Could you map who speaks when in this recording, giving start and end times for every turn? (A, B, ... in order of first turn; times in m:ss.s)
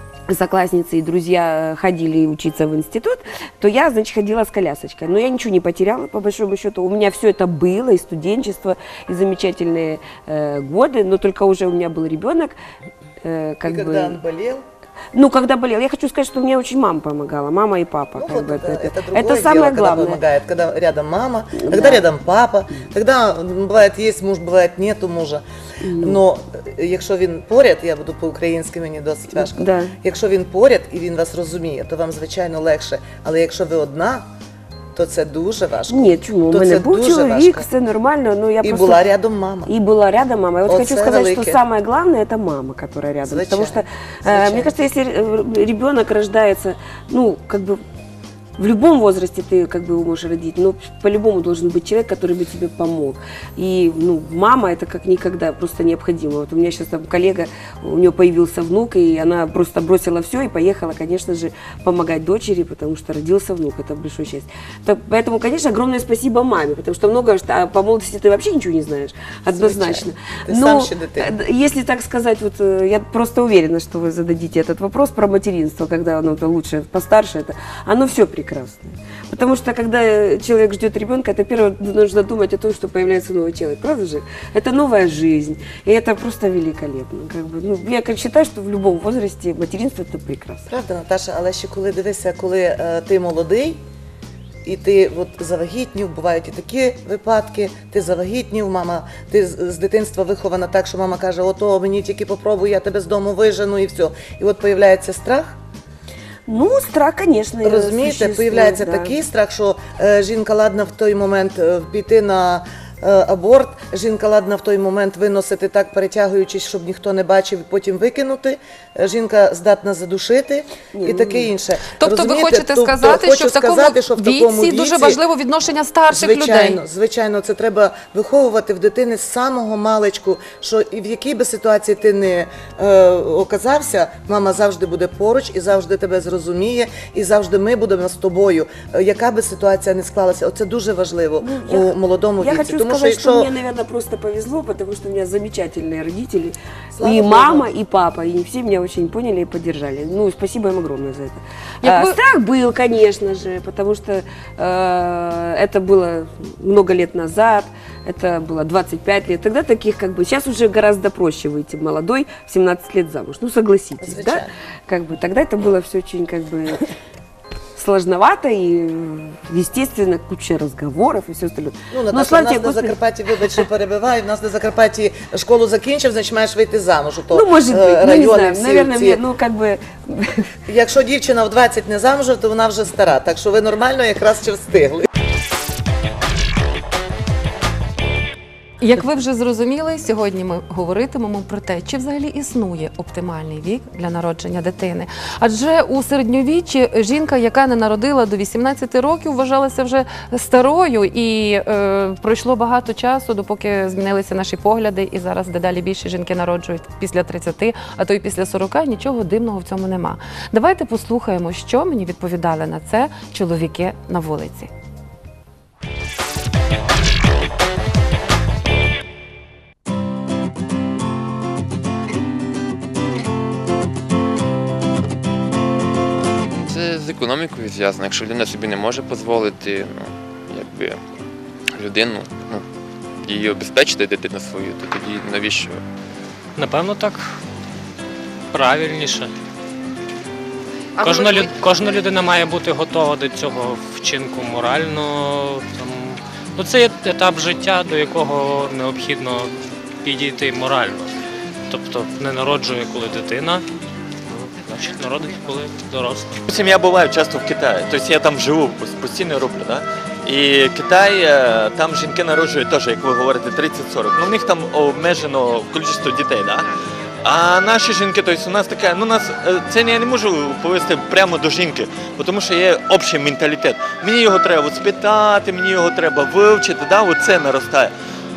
0:00.3-0:12.6 A
0:13.2-0:14.2 A
0:13.6-0:14.6 B
0:15.1-0:20.2 A
0:18.2-0:25.4 B
0:21.6-0:22.1 A
0:25.8-0:26.2 A
0:26.0-0:34.3 B
0:29.4-0:30.0 A
0:35.0-0:37.7 B
0:35.9-0:39.0 A
0:38.6-0:39.7 B
0:39.7-0:47.8 A
0:40.7-0:41.6 B
0:43.2-0:44.7 B
0:48.6-1:30.7 A
1:09.5-1:11.3 B
1:30.7-1:33.8 B
1:34.6-1:45.6 B
1:46.5-1:49.1 A
1:47.6-2:05.2 B
2:00.9-2:01.5 A
2:02.0-2:06.8 C
2:06.1-2:23.5 B
2:21.4-2:46.9 A
2:27.0-2:27.7 B
2:31.8-2:32.2 C
2:44.0-2:44.5 B
2:47.8-2:53.0 A
2:51.9-2:59.2 B
2:57.3-3:00.5 A
3:00.7-3:05.1 B
3:08.8-3:34.7 C
3:46.6-3:51.0 D
3:51.8-3:52.6 D
3:53.2-3:55.8 D
3:56.6-3:57.4 E
3:58.5-3:59.3 E
4:01.0-4:09.5 E
4:10.0-4:11.1 E
4:11.7-4:13.6 E
4:14.3-4:16.4 E
4:16.5-4:26.7 F
4:27.2-4:37.9 F